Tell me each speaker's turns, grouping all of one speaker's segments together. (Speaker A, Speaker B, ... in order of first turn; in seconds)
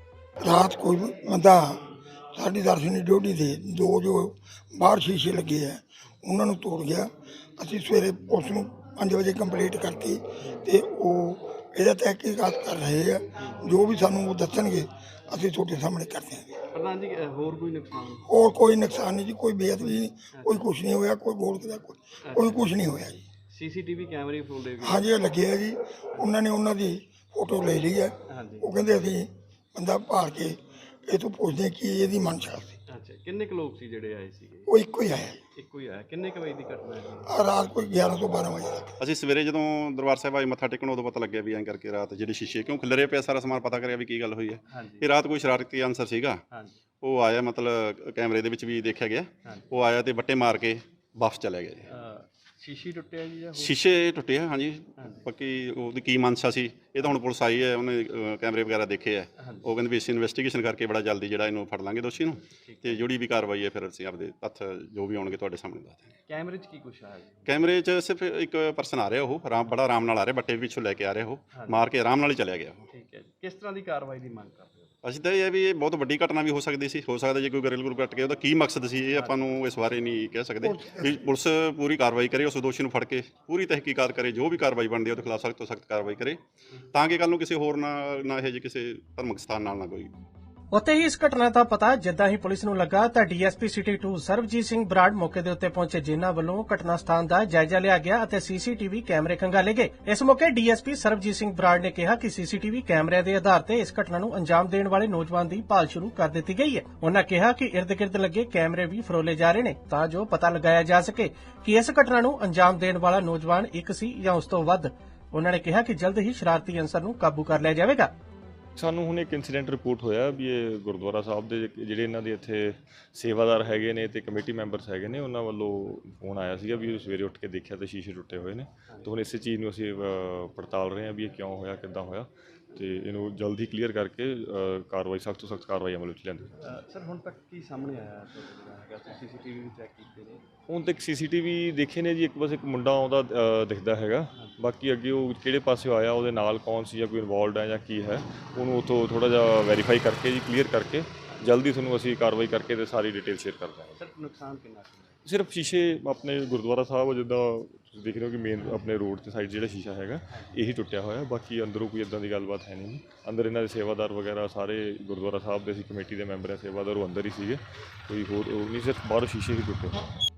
Speaker A: 0.4-16.6, 18.3-23.2, 24.8-32.8, 34.7-35.4, 37.2-39.0, 80.6-81.0
Speaker B: 10.4-10.7, 16.7-18.3, 19.8-20.7, 22.2-25.2, 28.3-28.7, 32.9-34.7, 35.5-37.4, 44.7-45.1, 46.5-46.8, 51.9-53.8, 55.0-55.3, 59.4-59.7, 62.6-63.1, 66.3-67.5, 71.5-71.9, 72.9-75.0, 79.1-79.6, 136.6-140.4, 153.9-155.2, 160.3-160.6
Speaker C: 39.0-46.4, 47.0-51.9, 53.5-66.1, 67.5-72.9, 75.0-86.4, 86.9-90.1
Speaker D: 90.7-118.1
Speaker E: 118.8-136.6, 140.7-154.0, 155.3-170.0